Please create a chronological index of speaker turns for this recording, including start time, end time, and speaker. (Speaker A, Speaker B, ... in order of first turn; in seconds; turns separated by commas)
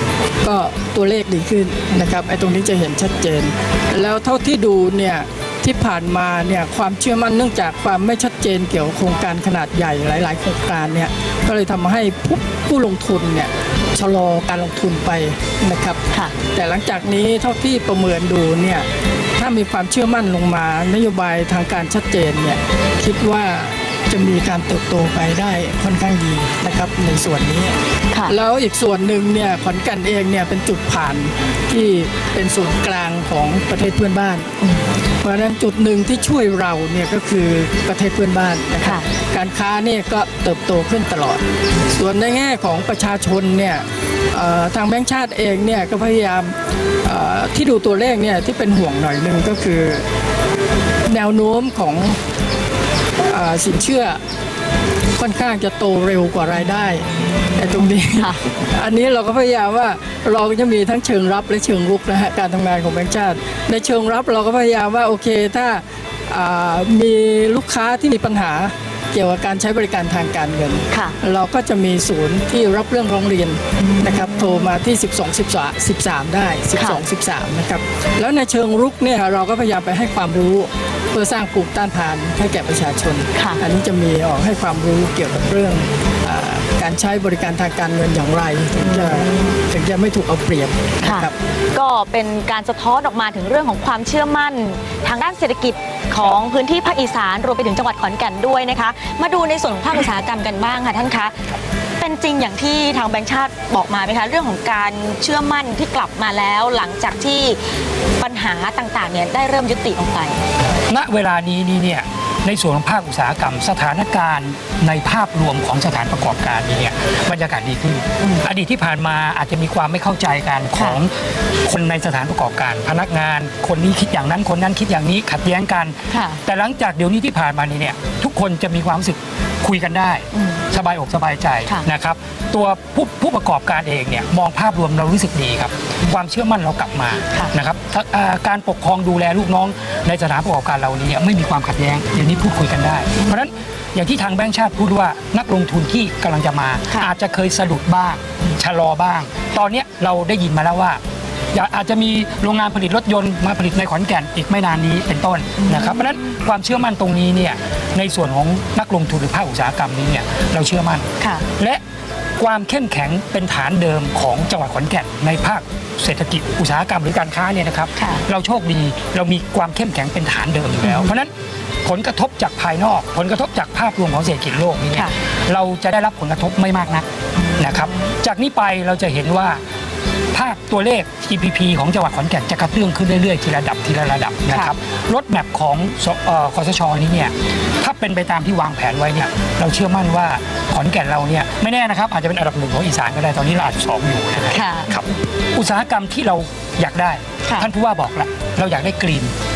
Speaker A: 0.4-34.5, Speaker A: 35.2-50.0, Speaker A: 51.1-52.2, Speaker A: 53.3-54.2, Speaker A: 55.2-91.4, Speaker B: 88.8-89.3, Speaker B: 91.0-101.4, Speaker B: 102.0-107.6, Speaker B: 108.2-110.4, Speaker C: 110.9-121.1, Speaker B: 118.2-118.4, Speaker B: 120.7-121.0, Speaker C: 121.7-125.9, Speaker B: 126.1-126.4, Speaker C: 126.5-151.0, Speaker B: 130.3-130.6, Speaker C: 151.5-161.1, Speaker B: 155.6-156.2, Speaker C: 162.4-171.3, Speaker B: 168.0-168.2, Speaker B: 170.8-171.1, Speaker C: 171.8-177.1, Speaker B: 177.4-178.1, Speaker C: 177.6-179.6, Speaker C: 180.3-194.9, Speaker B: 194.5-195.0, Speaker C: 195.6-199.3, Speaker B: 197.4-197.7